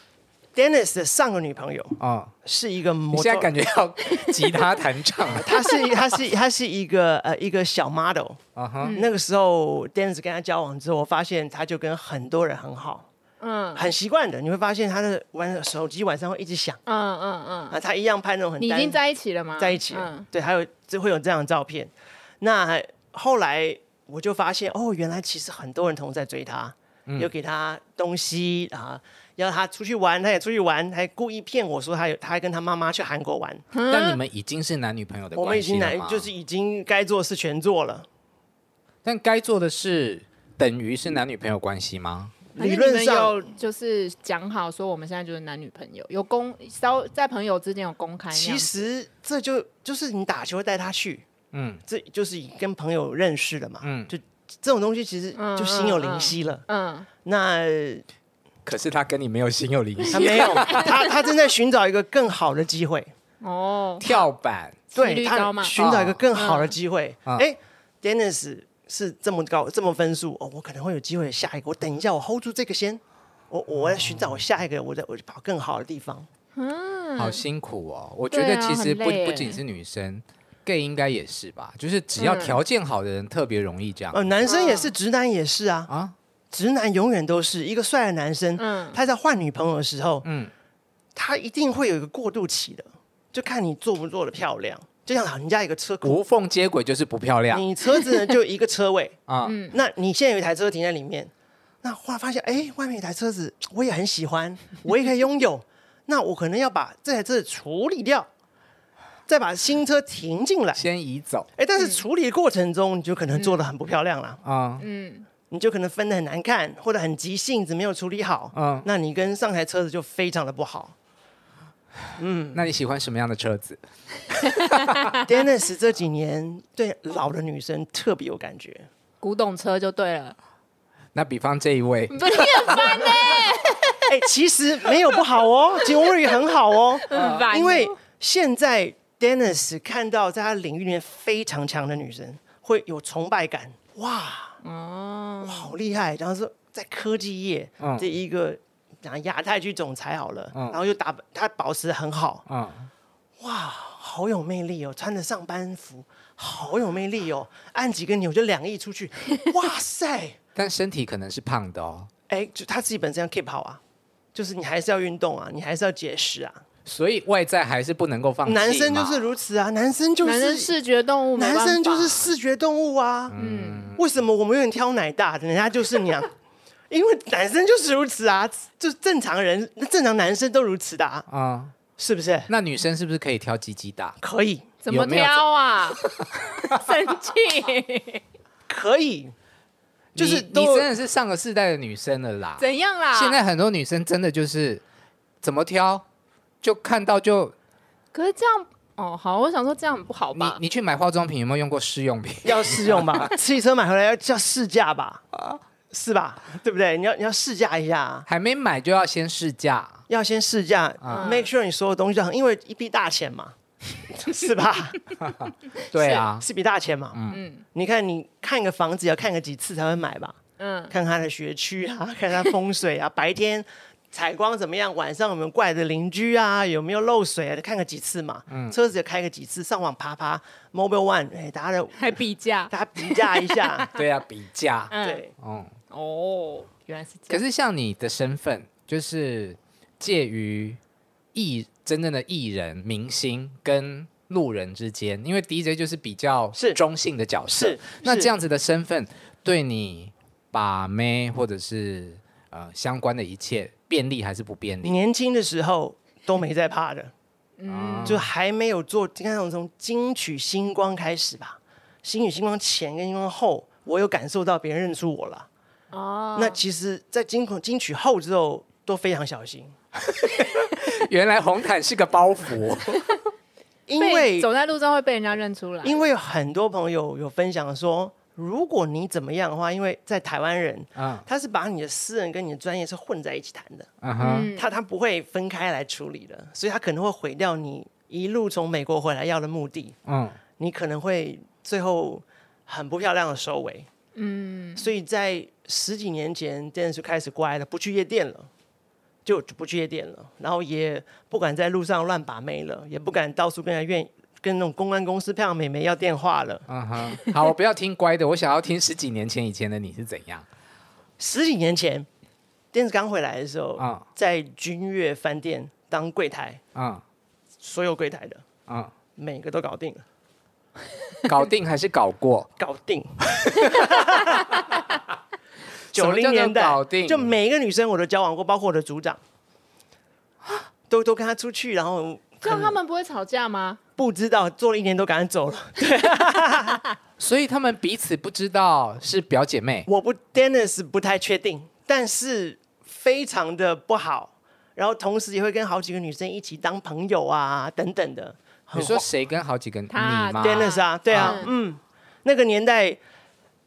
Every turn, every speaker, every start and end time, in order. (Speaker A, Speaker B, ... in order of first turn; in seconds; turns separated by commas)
Speaker A: 0.5-3.5, Speaker B: 2.0-2.3, Speaker B: 3.1-5.6, Speaker A: 5.3-8.4, Speaker B: 8.6-9.0, Speaker C: 8.8-9.1, Speaker A: 8.9-13.1, Speaker C: 13.4-13.9, Speaker A: 13.8-16.8, Speaker C: 16.9-17.8, Speaker A: 17.7-19.0, Speaker C: 18.6-20.2, Speaker A: 19.6-33.6, Speaker C: 33.7-34.2, Speaker B: 33.9-36.3, Speaker A: 35.3-38.1, Speaker B: 39.0-42.4, Speaker A: 42.5-43.4, Speaker C: 42.6-48.7, Speaker A: 48.3-51.2, Speaker B: 51.5-51.8, Speaker A: 51.9-56.6, Speaker B: 53.8-54.1, Speaker C: 55.4-57.1, Speaker A: 57.2-58.0, Speaker B: 58.6-61.0, Speaker A: 60.1-63.1, Speaker C: 60.1-60.9, Speaker C: 63.4-64.2, Speaker B: 64.0-64.8, Speaker C: 64.9-65.8, Speaker A: 64.9-76.3, Speaker B: 65.8-66.2, Speaker C: 66.3-66.7, Speaker C: 76.5-77.4, Speaker B: 77.2-84.2, Speaker C: 78.3-79.6, Speaker C: 82.2-82.6, Speaker A: 84.1-85.9, Speaker C: 84.4-84.9, Speaker B: 85.9-86.1, Speaker A: 86.5-90.2, Speaker C: 88.6-89.0, Speaker B: 90.2-90.5, Speaker A: 91.1-96.2, Speaker B: 96.0-97.6, Speaker A: 97.5-99.2, Speaker B: 99.3-99.6, Speaker C: 99.4-99.8, Speaker A: 99.7-101.3, Speaker A: 101.8-108.3, Speaker A: 109.3-110.8, Speaker B: 110.8-111.5, Speaker A: 111.5-114.4, Speaker B: 114.4-114.8, Speaker C: 114.8-115.2, Speaker A: 115.5-120.9, Speaker B: 118.5-118.8, Speaker A: 122.2-122.6, Speaker B: 122.5-125.1, Speaker A: 125.2-128.9, Speaker C: 129.2-130.3, Speaker B: 131.1-133.4, Speaker C: 132.1-134.1, Speaker A: 134.0-144.6, Speaker C: 137.1-137.9, Speaker B: 137.1-137.4, Speaker C: 144.6-145.7, Speaker A: 145.4-152.4, Speaker B: 147.8-148.1, Speaker B: 150.5-150.8, Speaker B: 152.5-152.9, Speaker A: 153.4-160.4, Speaker B: 160.5-162.1, Speaker A: 162.3-163.8, Speaker A: 164.3-166.6, Speaker B: 166.8-169.2, Speaker A: 168.4-170.7, Speaker C: 170.2-172.3, Speaker A: 171.3-173.4, Speaker B: 173.3-174.0, Speaker C: 173.4-173.9, Speaker A: 173.9-176.3, Speaker A: 176.9-181.2, Speaker B: 181.3-181.7, Speaker A: 182.0-182.5, Speaker B: 182.5-184.2, Speaker A: 184.2-184.7, Speaker C: 184.8-188.2, Speaker B: 184.9-185.5, Speaker B: 186.0-186.9, Speaker A: 188.7-189.3, Speaker B: 190.1-194.8, Speaker A: 190.2-190.9, Speaker C: 192.6-193.4, Speaker B: 195.4-196.0, Speaker B: 196.6-197.5, Speaker C: 198.1-200.6, Speaker B: 200.3-203.3, Speaker A: 202.4-205.2, Speaker A: 205.9-208.2, Speaker B: 208.3-210.0, Speaker A: 210.1-213.5, Speaker B: 211.0-211.3, Speaker C: 211.1-211.5, Speaker A: 214.1-215.0, Speaker B: 215.2-216.4, Speaker A: 216.0-217.2, Speaker B: 217.1-217.4, Speaker C: 217.3-217.6, Speaker A: 217.7-220.4, Speaker C: 220.6-220.9, Speaker A: 220.9-233.9, Speaker B: 228.5-228.8, Speaker C: 232.0-234.0, Speaker B: 233.9-235.7, Speaker C: 234.9-235.2, Speaker A: 235.0-235.3, Speaker C: 235.9-237.4, Speaker B: 237.3-240.8, Speaker B: 241.3-255.0, Speaker A: 247.5-248.3, Speaker A: 254.8-257.1, Speaker C: 257.6-258.2, Speaker B: 257.7-258.2, Speaker A: 258.1-265.5, Speaker C: 265.9-266.6, Speaker A: 266.3-269.7, Speaker B: 270.0-273.1, Speaker A: 273.9-274.5, Speaker C: 274.0-276.1, Speaker A: 275.8-283.9, Speaker B: 280.9-281.2, Speaker B: 284.0-284.5, Speaker C: 284.2-284.7, Speaker A: 284.5-289.9, Speaker B: 290.0-290.4, Speaker A: 290.6-293.9, Speaker C: 294.1-294.9, Speaker A: 294.8-298.5, Speaker A: 299.2-306.6, Speaker B: 306.7-310.4, Speaker A: 311.2-312.1, Speaker A: 312.7-316.6, Speaker B: 313.8-314.0, Speaker B: 316.7-317.0, Speaker A: 317.6-318.4, Speaker A: 319.1-320.0, Speaker B: 321.2-322.5, Speaker A: 322.6-324.6, Speaker B: 323.2-324.5, Speaker B: 325.9-327.3, Speaker A: 325.9-329.2, Speaker A: 330.9-332.7, Speaker C: 332.4-333.8, Speaker A: 334.0-336.8, Speaker B: 337.2-339.9, Speaker A: 339.9-349.1, Speaker B: 348.7-351.4, Speaker C: 349.9-351.5, Speaker A: 350.4-353.0